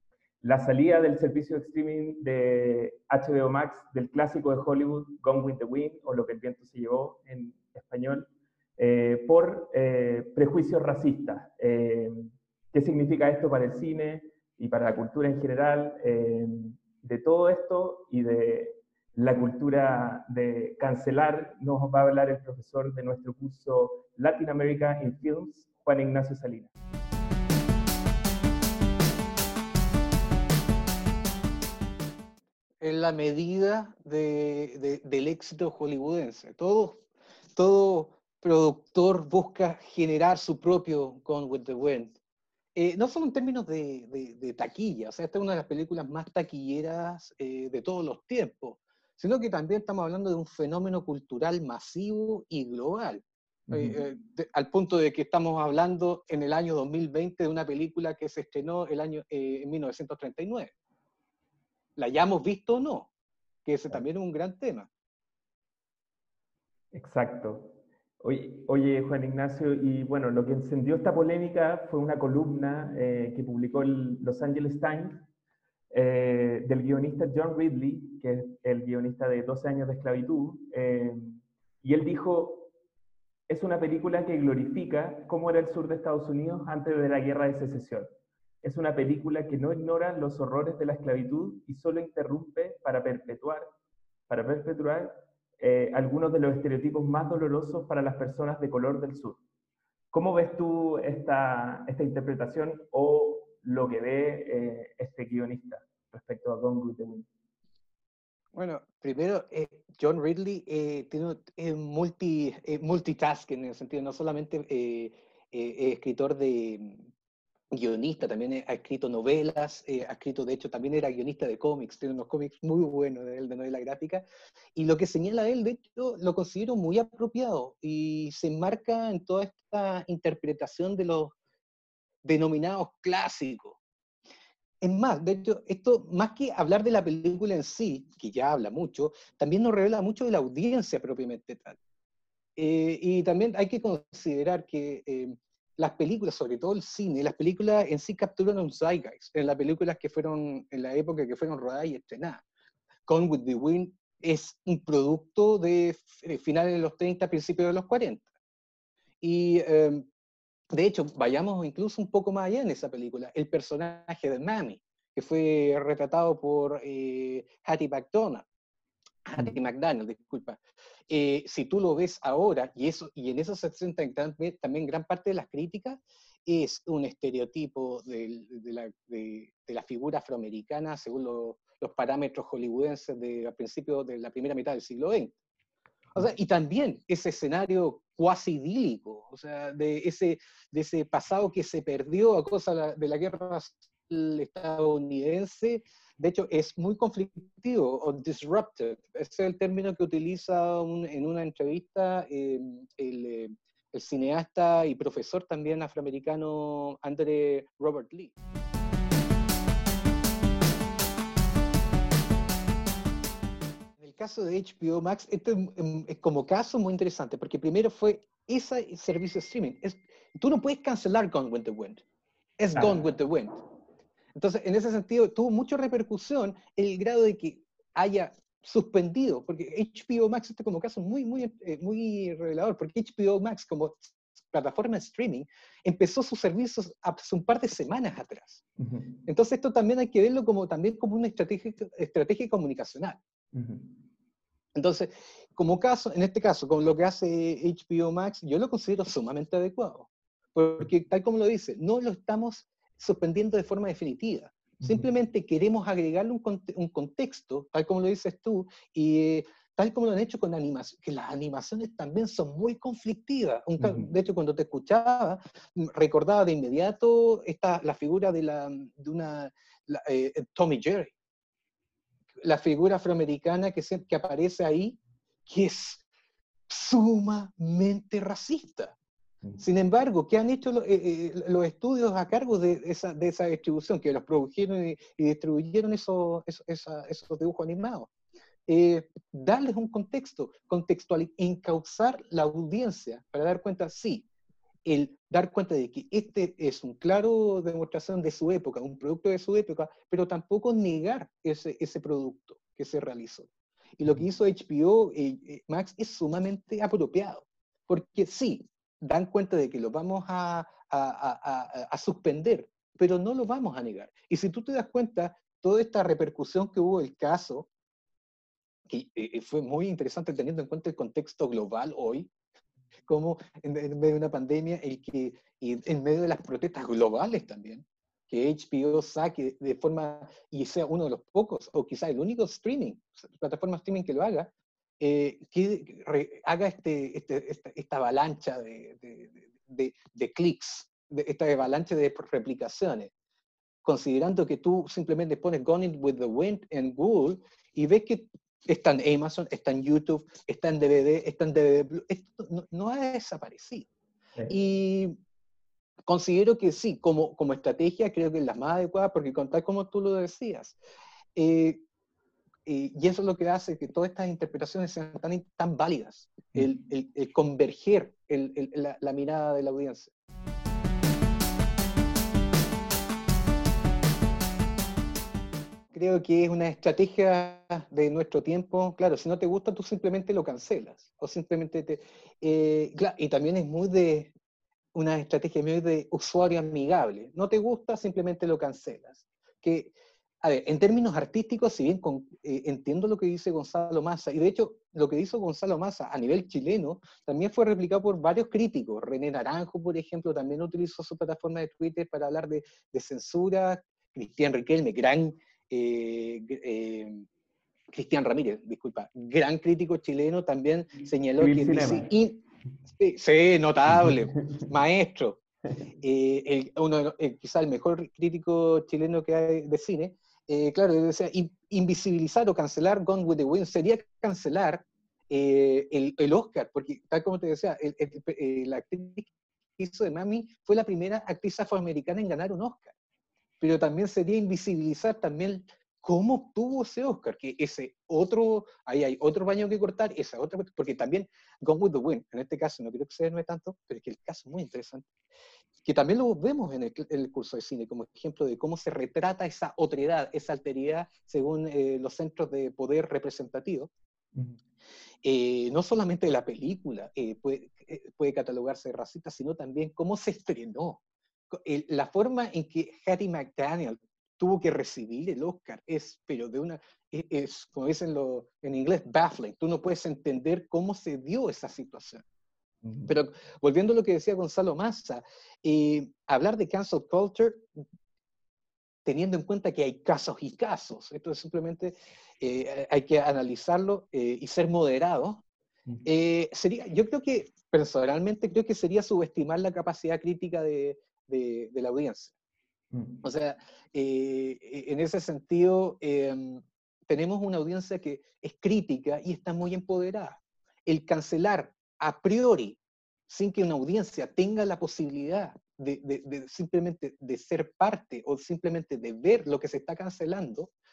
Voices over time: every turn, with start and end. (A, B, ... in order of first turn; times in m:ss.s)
0:00.4-0:26.7 A
0:32.8-0:37.0 B
0:37.5-0:42.1 B
0:42.7-1:00.7 B
0:53.7-0:54.0 A
1:02.0-1:03.1 B
1:03.6-1:04.9 B
1:06.9-1:15.3 A
1:15.9-1:22.7 A
1:23.5-1:28.1 A
1:28.6-1:33.7 A
1:34.3-1:39.4 A
1:40.1-1:47.3 A
1:48.5-1:57.1 B
1:57.7-2:04.2 B
2:04.7-2:11.3 B
2:12.2-2:13.8 B
2:14.8-2:21.8 B
2:22.6-2:32.4 B
2:33.1-2:38.2 B
2:39.2-2:40.0 B
2:40.7-2:48.4 B
2:49.2-3:05.3 B
3:06.1-3:28.3 B
3:34.0-3:42.0 B
3:42.6-3:43.6 B
3:42.7-3:43.1 A
3:44.3-3:58.6 B
3:58.8-3:59.1 A
3:59.2-4:03.2 B
4:03.5-4:04.0 A
4:04.7-4:31.1 B
4:14.8-4:15.1 A
4:23.8-4:24.1 A
4:32.4-4:36.0 B
4:36.7-4:39.0 B
4:39.6-4:48.1 B
4:48.7-4:54.3 B
4:54.8-5:17.7 B
5:18.9-5:22.3 B
5:23.1-5:43.1 B
5:43.8-5:53.9 B
5:54.5-5:55.1 B
5:56.0-6:00.8 B
6:01.4-6:01.8 B
6:02.6-6:10.1 B
6:15.9-6:24.3 B
6:24.9-6:47.3 B
6:47.9-6:55.4 B
6:51.4-6:52.1 A
6:53.9-6:54.7 A
6:56.0-7:12.9 B
7:13.6-7:25.1 B
7:25.8-7:33.9 B
7:35.2-7:52.2 B
7:52.8-7:53.1 A
7:53.1-7:57.7 B
7:59.0-8:05.4 B
8:06.0-8:12.3 B
8:12.9-8:13.2 A
8:13.2-8:30.7 B